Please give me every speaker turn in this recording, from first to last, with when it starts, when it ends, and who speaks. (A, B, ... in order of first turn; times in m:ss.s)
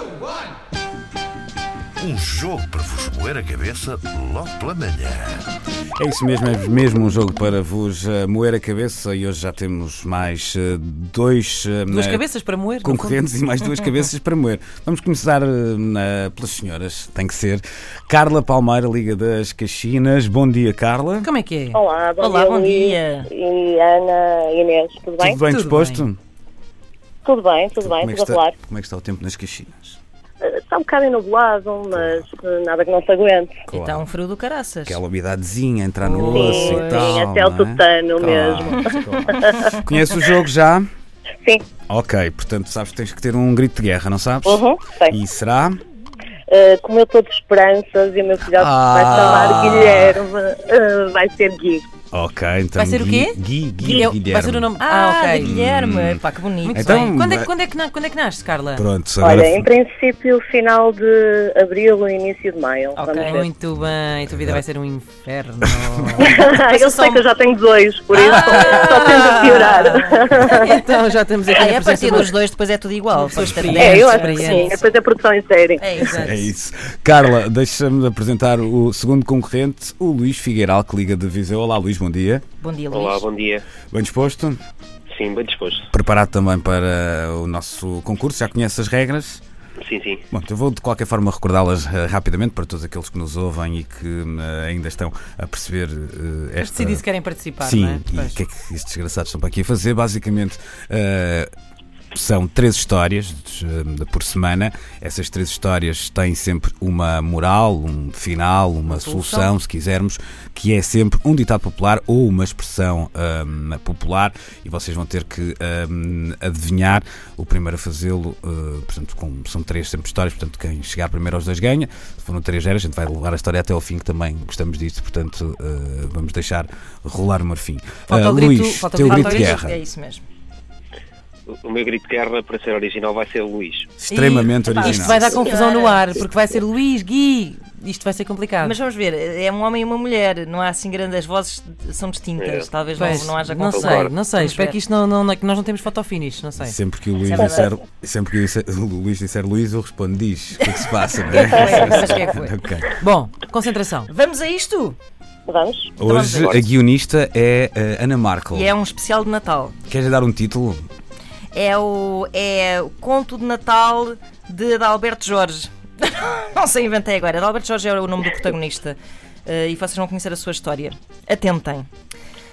0:02.0-0:05.5 A
0:06.0-0:12.3 B
0:11.9-0:13.2 C
0:12.8-0:21.3 B
0:21.2-0:21.8 C
0:21.7-0:25.4 D
0:22.2-0:23.3 E
0:25.2-0:26.2 B
0:25.4-0:26.1 C
0:27.2-0:28.5 D
0:27.8-0:30.0 B
0:30.4-0:33.6 D
0:33.7-0:34.0 B
0:33.7-0:35.0 E
0:34.9-0:40.9 B
0:36.0-0:37.2 E
0:36.2-0:39.8 D
0:41.9-0:45.8 B
0:44.4-0:45.2 D
0:46.5-0:51.8 D
0:48.5-0:50.2 B
0:52.1-0:54.7 B
0:52.8-0:55.5 C
0:54.8-0:57.1 E
0:55.4-0:56.2 B
0:56.6-0:58.8 C
0:56.7-0:57.5 B
0:58.8-0:59.7 B
0:59.2-1:03.5 D
1:03.0-1:06.4 C
1:04.3-1:04.6 B
1:06.2-1:10.7 D
1:06.5-1:07.3 E
1:08.2-1:10.2 E
1:08.2-1:12.3 C
1:11.5-1:14.8 E
1:13.1-1:14.8 C
1:13.8-1:16.1 D
1:15.8-1:16.5 E
1:16.0-1:22.4 B
1:22.6-1:23.3 E
1:22.9-1:23.7 F
1:23.9-1:24.6 B
1:25.1-1:25.9 F
1:25.9-1:29.4 B
1:29.8-1:30.2 F
1:30.3-1:37.1 B
1:36.6-1:38.4 C
1:37.6-1:41.5 B
1:42.1-2:09.8 B
1:48.9-1:49.5 C
2:08.1-2:09.6 C
2:09.0-2:10.3 E
2:11.5-2:13.9 F
2:14.0-2:15.3 B
2:14.1-2:16.0 E
2:14.8-2:18.8 C
2:18.6-2:24.8 E
2:22.4-2:22.7 F
2:23.0-2:27.6 C
2:23.7-2:24.1 F
2:26.6-2:33.0 B
2:27.4-2:27.6 E
2:31.3-2:32.3 E
2:31.4-2:34.1 C
2:34.1-2:35.0 E
2:35.5-2:35.9 D
2:36.0-2:38.8 B
2:36.0-2:36.6 E
2:38.5-2:39.8 E
2:39.9-2:40.9 B
2:41.5-2:51.9 E